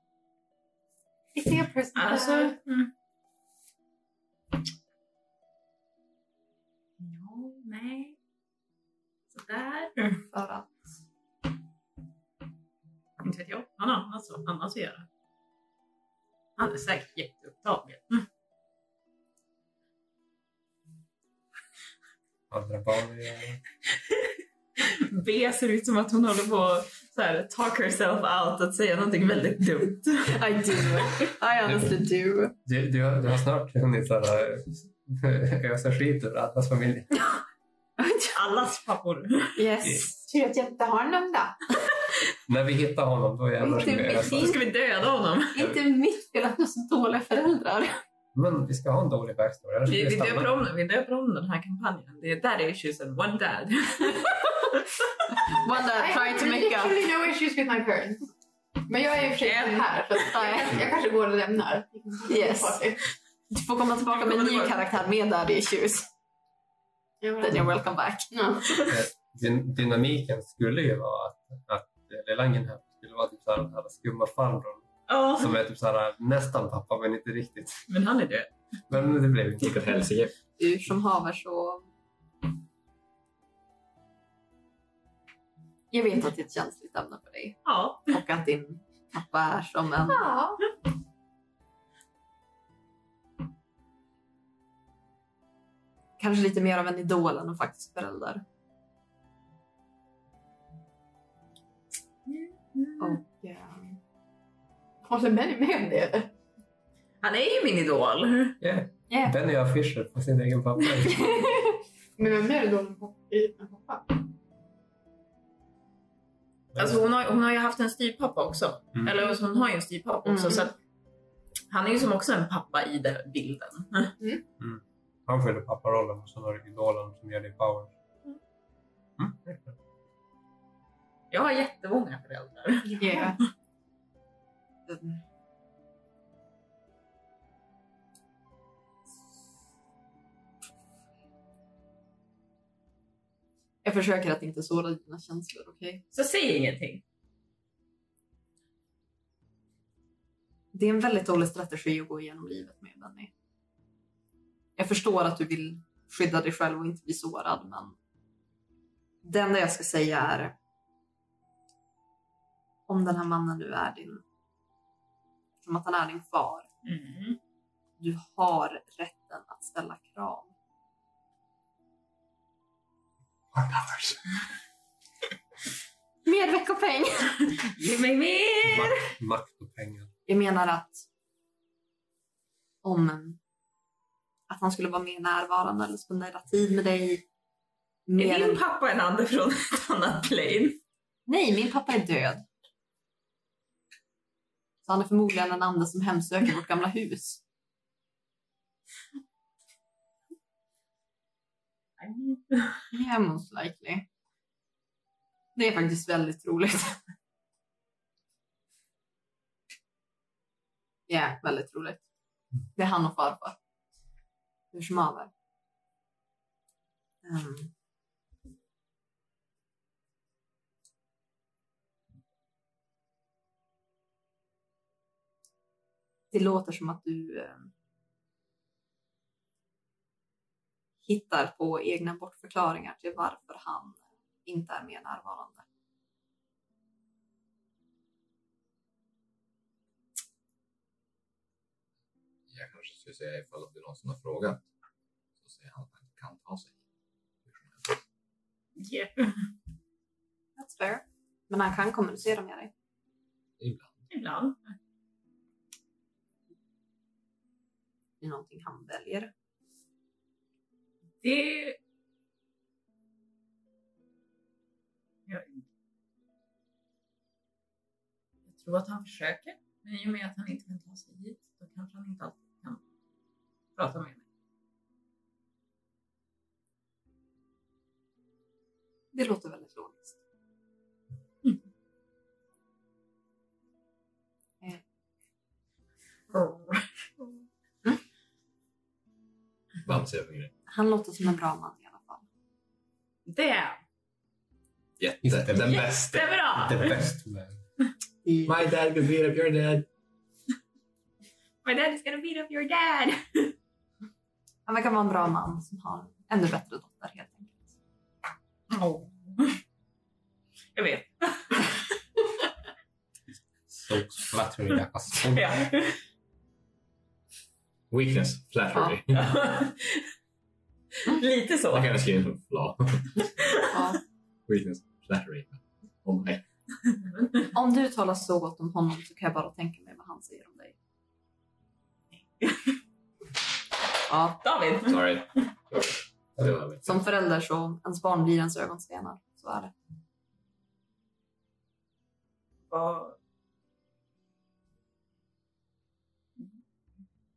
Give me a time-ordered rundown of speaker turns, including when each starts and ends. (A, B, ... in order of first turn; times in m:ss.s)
0:01.3-0:02.6 A
0:01.9-0:02.9 B
0:07.0-0:08.2 B
0:09.3-0:10.2 B
0:10.3-0:10.7 C
0:13.2-0:15.1 B
0:16.6-0:18.2 B
0:22.5-0:23.6 D
0:24.8-0:31.0 B
0:30.3-0:32.5 C
0:32.6-0:37.2 D
0:38.0-0:38.3 C
0:38.3-0:39.6 B
0:39.6-0:40.2 C
0:40.2-0:41.6 A
0:42.5-0:44.6 D
0:43.6-0:44.6 C
0:43.8-0:45.6 B
0:45.5-0:48.0 C
0:48.3-0:50.6 D
0:49.9-0:54.8 B
0:55.4-0:57.0 C
0:55.8-0:58.2 A
0:58.9-1:03.0 A
0:59.4-1:00.4 B
1:00.3-1:00.7 C
1:02.2-1:02.8 C
1:03.5-1:06.1 C
1:04.1-1:04.8 B
1:07.2-1:07.7 A
1:07.4-1:08.8 C
1:08.3-1:09.0 A
1:08.9-1:17.8 D
1:15.1-1:15.5 B
1:17.9-1:18.5 B
1:18.9-1:19.9 D
1:19.6-1:20.3 E
1:20.6-1:21.9 C
1:25.9-1:30.2 C
1:27.6-1:28.1 B
1:30.2-1:30.6 A
1:36.2-1:38.4 C
1:42.3-1:43.2 B
1:43.0-1:43.9 C
1:45.0-1:46.3 A
1:47.2-1:48.6 B
1:48.6-1:51.4 D
1:49.1-1:49.3 C
1:51.2-1:51.5 C
1:52.2-1:54.2 A
1:56.7-1:57.0 D
1:56.8-2:00.8 B
2:00.2-2:00.7 C
2:01.7-2:04.2 B
2:04.6-2:07.9 D
2:09.2-2:09.8 D
2:11.3-2:13.2 B
2:12.9-2:13.4 A
2:14.9-2:15.2 C
2:23.8-2:26.0 C
2:26.1-2:27.0 B
2:30.7-2:33.3 C
2:34.8-2:38.0 C
2:39.2-2:40.6 C
2:42.9-2:44.2 C
2:45.6-2:46.7 C
2:46.8-2:47.4 B
2:48.0-2:50.5 C
2:53.5-2:54.2 D
2:56.2-2:57.5 C
2:57.6-2:59.0 B
2:58.6-3:00.1 D
3:00.3-3:01.0 C
3:02.8-3:03.4 C
3:04.5-3:07.2 C
3:08.1-3:08.6 C
3:08.2-3:10.8 B
3:11.3-3:12.4 C
3:14.8-3:17.4 C
3:22.0-3:22.8 B
3:22.9-3:24.0 C
3:25.6-3:27.0 C
3:31.1-3:32.0 C
3:32.7-3:33.6 C
3:34.7-3:35.3 C
3:37.2-3:37.7 C
3:46.3-3:47.7 C
3:51.0-3:55.6 C
4:02.5-4:04.6 E
4:05.4-4:06.8 E
4:07.4-4:08.0 E
4:08.8-4:09.5 B
4:10.6-4:12.7 C
4:13.6-4:14.0 E
4:14.1-4:14.7 B
4:18.2-4:19.3 C
4:21.2-4:21.8 B
4:25.3-4:25.6 B
4:28.5-4:32.8 B
4:33.8-4:34.2 B
4:39.1-4:40.2 C
4:46.3-4:47.4 B
4:49.8-4:50.5 E
4:50.7-4:52.2 C
4:53.2-4:53.8 B
4:55.0-4:56.3 E
4:55.2-4:56.0 D
4:55.6-4:57.0 B
4:56.5-4:57.6 D
4:58.2-4:58.6 C
4:58.4-4:59.9 E
5:01.6-5:03.5 B
5:04.6-5:07.7 C
5:08.7-5:09.6 B
5:10.7-5:11.7 B
5:13.7-5:15.5 D
5:15.3-5:16.0 B
5:17.9-5:19.2 E
5:19.1-5:20.1 B
5:21.0-5:22.0 B
5:21.7-5:23.2 E
5:23.4-5:23.7 B
5:23.7-5:24.0 C
5:24.5-5:26.4 E
5:27.0-5:27.5 B
5:27.5-5:30.8 C
5:32.4-5:32.7 B
5:34.1-5:34.4 C
5:34.4-5:35.0 B
5:34.8-5:37.0 E
5:36.8-5:39.7 C
5:42.7-5:43.2 B